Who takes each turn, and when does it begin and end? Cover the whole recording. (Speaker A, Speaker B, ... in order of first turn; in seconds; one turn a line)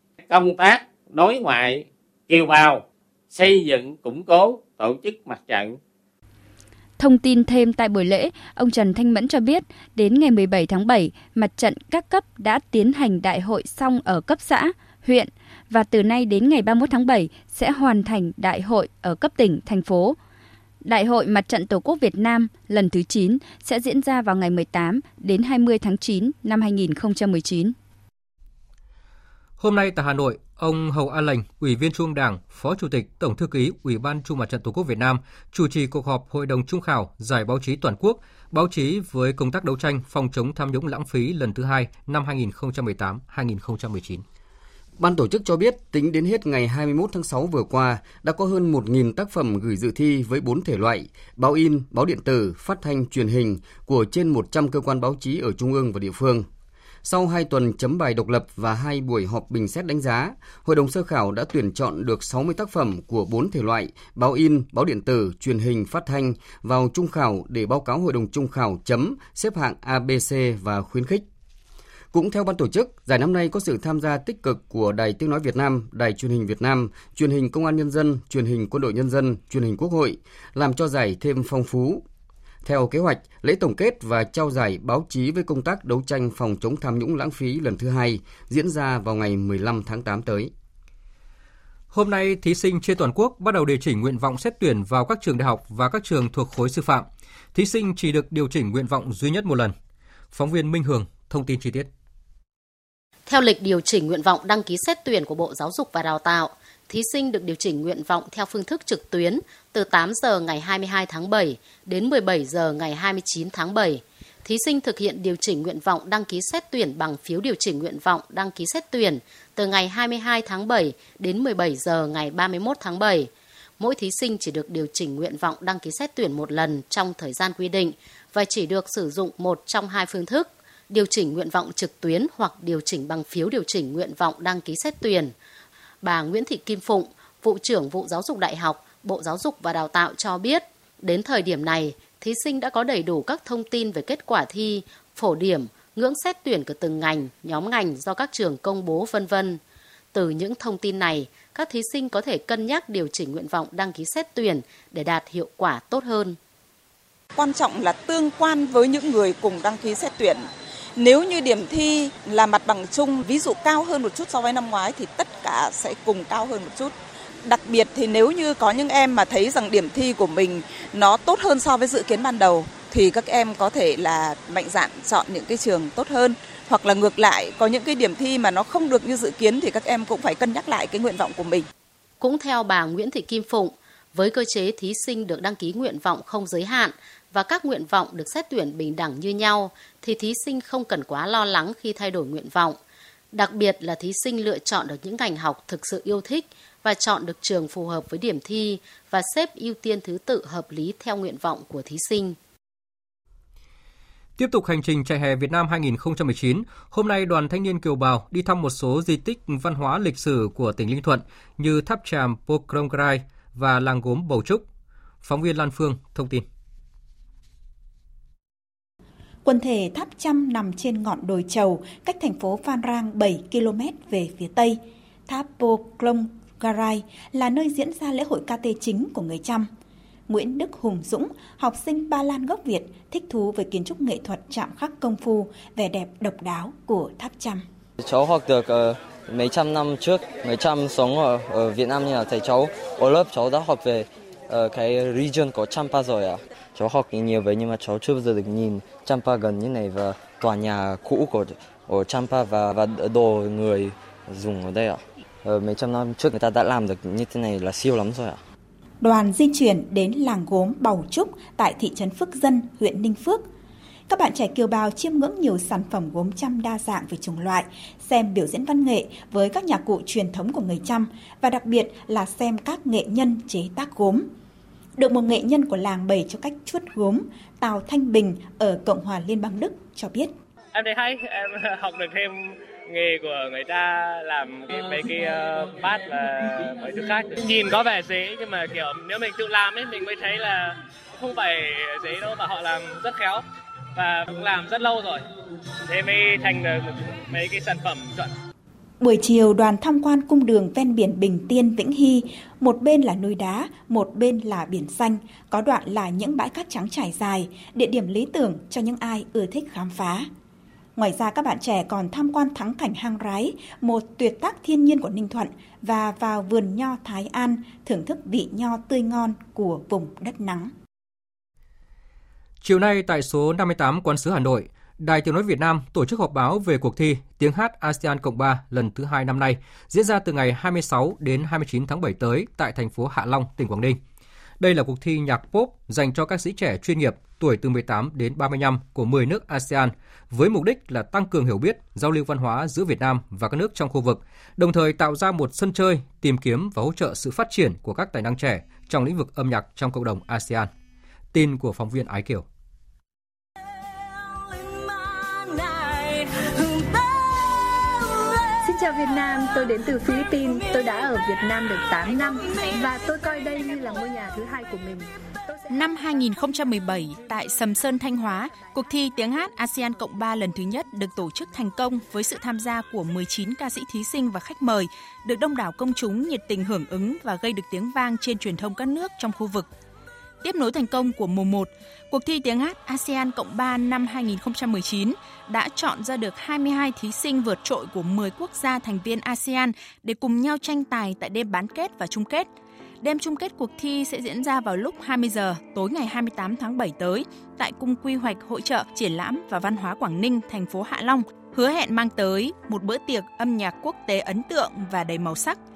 Speaker A: 0.2-5.8
Speaker B: 7.0-20.2
Speaker B: 20.8-27.7
Speaker C: 29.6-44.2
Speaker D: 45.0-56.5
Speaker D: 57.0-71.2
Speaker D: 72.1-82.0
Speaker D: 82.6-90.5
Speaker C: 91.9-99.7
Speaker C: 100.3-101.9
Speaker E: 103.3-135.3
Speaker E: 136.0-149.6
Speaker E: 150.1-156.4
Speaker F: 157.3-181.7
Speaker E: 182.2-192.8
Speaker E: 193.3-202.4
Speaker C: 204.4-214.6
Speaker C: 215.2-216.4
Speaker G: 219.4-229.7
Speaker G: 230.3-237.6
Speaker H: 238.0-258.4
Speaker G: 259.0-263.5
Speaker G: 264.1-274.3
Speaker G: 275.0-280.3
Speaker I: 280.7-293.4
Speaker I: 293.9-295.2
Speaker I: 295.9-298.3
Speaker G: 299.0-310.3
Speaker G: 310.9-320.7
Speaker C: 322.6-334.0
Speaker C: 334.6-350.7
Speaker C: 351.3-352.4
Speaker J: 358.7-365.0
Speaker K: 365.7-379.7
Speaker K: 380.4-392.5
Speaker K: 393.0-405.6